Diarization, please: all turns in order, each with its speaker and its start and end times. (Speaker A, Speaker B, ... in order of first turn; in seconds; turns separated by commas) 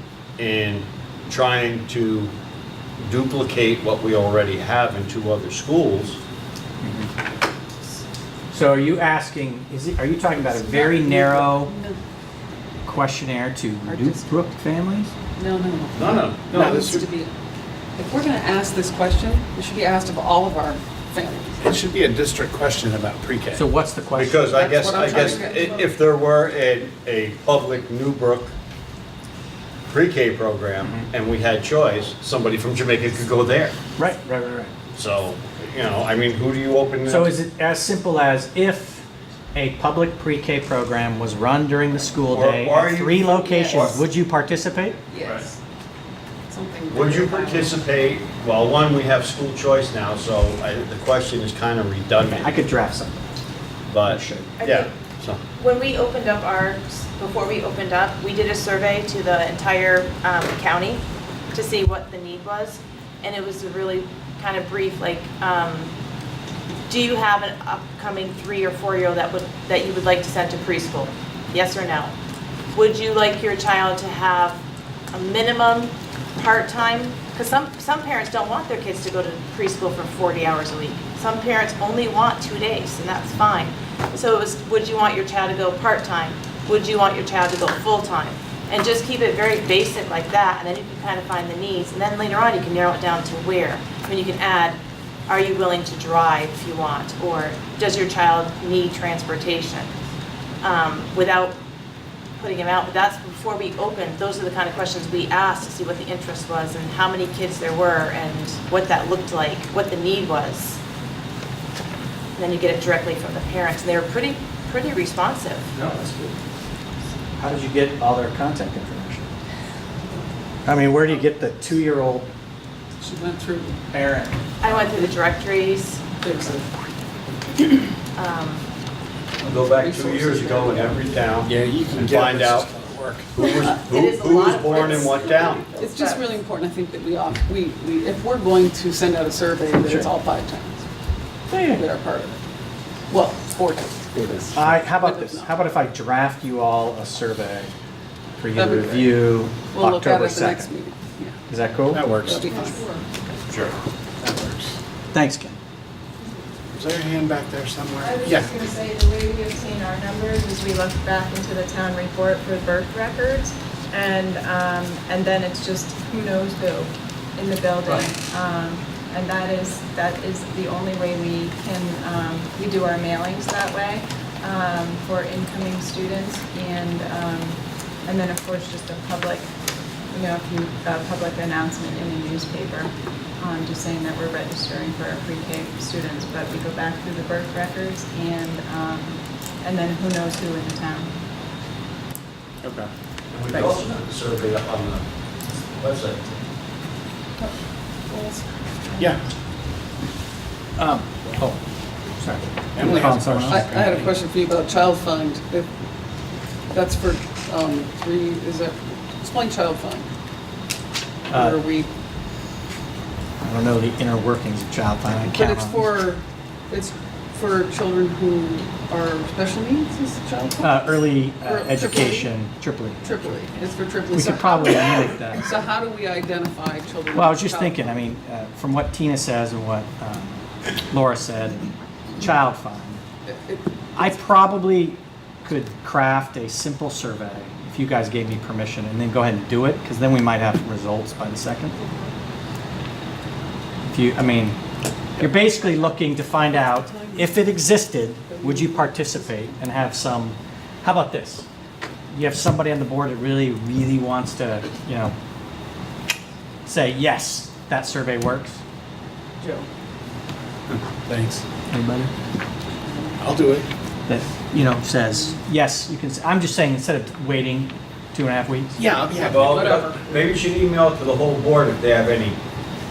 Speaker A: 0.4-2.3, Speaker A: 3.0-6.2, Speaker B: 6.8-7.1, Speaker B: 8.5-11.7, Speaker C: 10.5-12.0, Speaker B: 12.8-15.1, Speaker C: 13.8-14.2, Speaker C: 15.3-17.3, Speaker A: 15.9-16.7, Speaker D: 16.5-17.0, Speaker C: 17.9-21.7, Speaker D: 21.6-23.6, Speaker B: 23.5-24.5, Speaker A: 24.1-28.5, Speaker C: 24.4-25.9, Speaker A: 29.9-33.7, Speaker B: 30.8-31.1, Speaker B: 34.0-34.7, Speaker A: 35.0-37.3, Speaker B: 37.0-45.0, Speaker A: 42.3-44.0, Speaker C: 45.1-45.6, Speaker C: 46.5-47.8, Speaker A: 46.9-52.5, Speaker B: 52.2-53.3, Speaker A: 53.9-55.4, Speaker B: 54.0-54.5, Speaker E: 54.6-54.9, Speaker E: 55.6-65.9, Speaker E: 66.9-72.1, Speaker E: 72.7-74.6, Speaker E: 75.1-99.9, Speaker E: 100.6-101.5, Speaker E: 102.4-110.8, Speaker E: 112.4-115.7, Speaker B: 115.8-116.4, Speaker B: 117.4-119.3, Speaker B: 120.6-122.3, Speaker C: 123.0-123.8, Speaker B: 123.9-124.4, Speaker E: 124.6-126.0, Speaker C: 124.7-125.0, Speaker C: 126.2-126.7, Speaker E: 128.2-128.7, Speaker A: 129.4-132.7, Speaker C: 129.5-131.2, Speaker D: 131.4-133.3, Speaker A: 133.3-135.7, Speaker E: 133.4-136.2, Speaker C: 135.8-140.8, Speaker B: 141.5-141.8, Speaker C: 141.6-142.4, Speaker C: 143.1-145.5, Speaker B: 144.5-147.7, Speaker B: 148.4-150.7, Speaker C: 148.6-151.4, Speaker B: 151.5-152.1, Speaker D: 151.9-152.8, Speaker C: 152.0-153.1, Speaker A: 153.5-153.7, Speaker D: 154.2-154.8, Speaker B: 155.1-155.6, Speaker D: 156.7-158.7, Speaker F: 158.0-179.5, Speaker F: 180.1-191.1, Speaker D: 192.6-192.9, Speaker A: 193.3-195.1, Speaker A: 195.7-196.2, Speaker C: 198.1-199.2, Speaker B: 200.8-201.6, Speaker B: 202.2-203.7, Speaker D: 202.8-204.1, Speaker C: 203.5-205.7, Speaker C: 206.7-210.1, Speaker C: 211.3-211.9, Speaker B: 211.3-211.6, Speaker B: 213.4-215.9, Speaker C: 215.2-222.3, Speaker B: 220.6-223.4, Speaker C: 223.0-228.0, Speaker B: 224.1-225.5, Speaker B: 227.1-233.0, Speaker C: 233.2-234.1, Speaker B: 234.0-241.8, Speaker C: 241.8-242.2, Speaker B: 243.9-244.6, Speaker B: 245.2-251.5, Speaker C: 245.2-247.7, Speaker C: 248.3-249.5, Speaker B: 252.1-255.2, Speaker B: 256.7-258.6, Speaker C: 259.4-259.7, Speaker D: 260.7-261.4, Speaker B: 261.7-262.1, Speaker C: 262.9-263.2, Speaker D: 263.2-263.7, Speaker B: 264.1-268.8, Speaker D: 268.8-269.6, Speaker C: 269.1-270.0, Speaker A: 269.2-272.4